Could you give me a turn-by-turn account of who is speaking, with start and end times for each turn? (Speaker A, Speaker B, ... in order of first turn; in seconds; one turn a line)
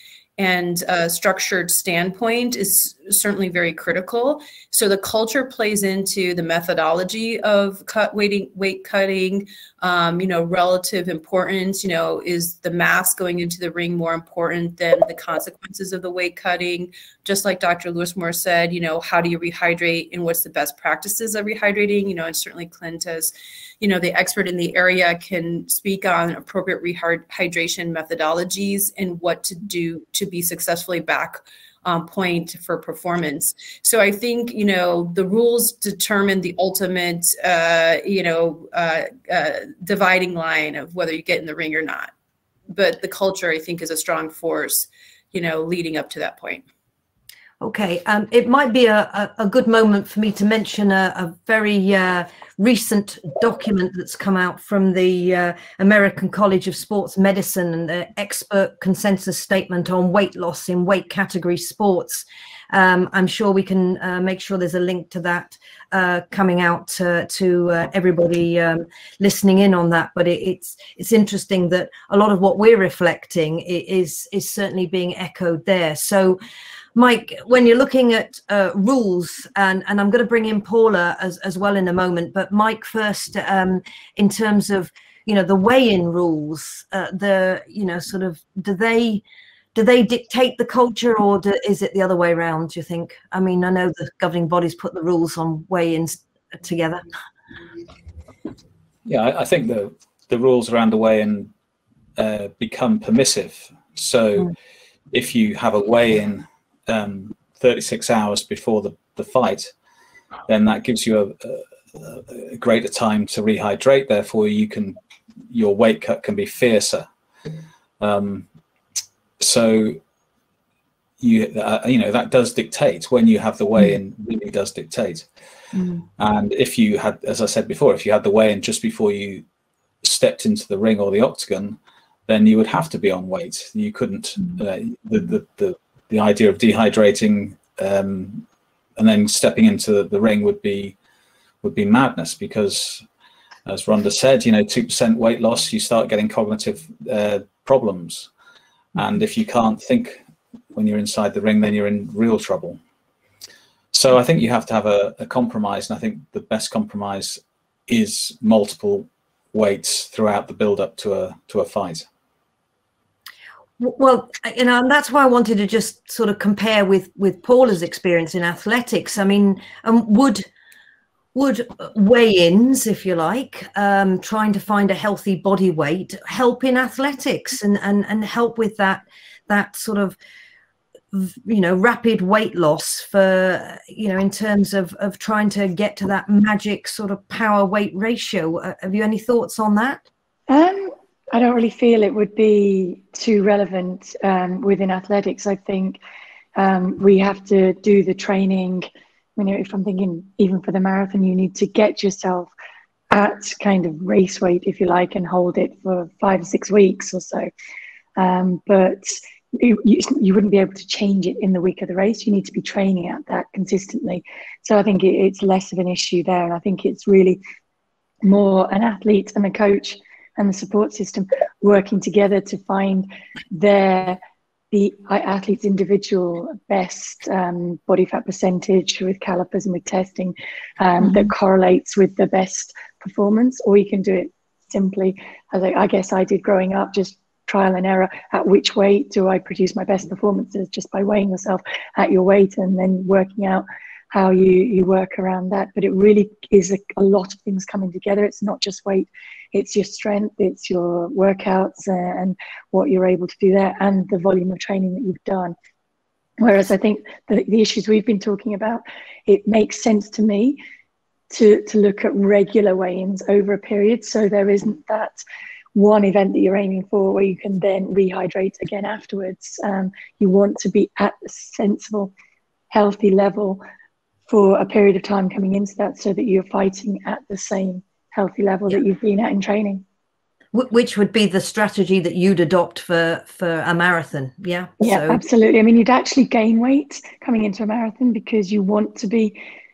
Speaker A: 0.4-42.1
Speaker A: 42.7-46.6
Speaker B: 47.6-76.4
Speaker B: 76.9-89.2
Speaker B: 89.7-97.0
Speaker C: 99.0-101.5
Speaker C: 102.2-104.5
Speaker C: 105.1-109.7
Speaker C: 110.5-115.0
Speaker C: 115.5-117.1
Speaker C: 118.0-118.5
Speaker C: 119.4-120.0
Speaker C: 121.2-125.3
Speaker B: 125.8-126.0
Speaker C: 126.2-129.4
Speaker C: 130.0-138.4
Speaker C: 139.0-140.9
Speaker C: 141.6-143.1
Speaker C: 143.7-148.3
Speaker C: 148.9-150.2
Speaker C: 150.7-152.8
Speaker C: 153.9-162.1
Speaker B: 163.8-170.4
Speaker B: 171.3-180.2
Speaker B: 181.1-190.0
Speaker D: 190.5-196.0
Speaker D: 196.6-202.5
Speaker D: 203.1-207.5
Speaker D: 208.2-217.4
Speaker D: 218.2-224.2
Speaker D: 224.7-255.5
Speaker B: 231.0-231.3
Speaker D: 256.4-260.6
Speaker D: 261.3-265.2
Speaker D: 265.7-272.1
Speaker D: 272.7-273.6
Speaker D: 274.3-279.8
Speaker B: 280.5-285.2
Speaker D: 284.8-289.4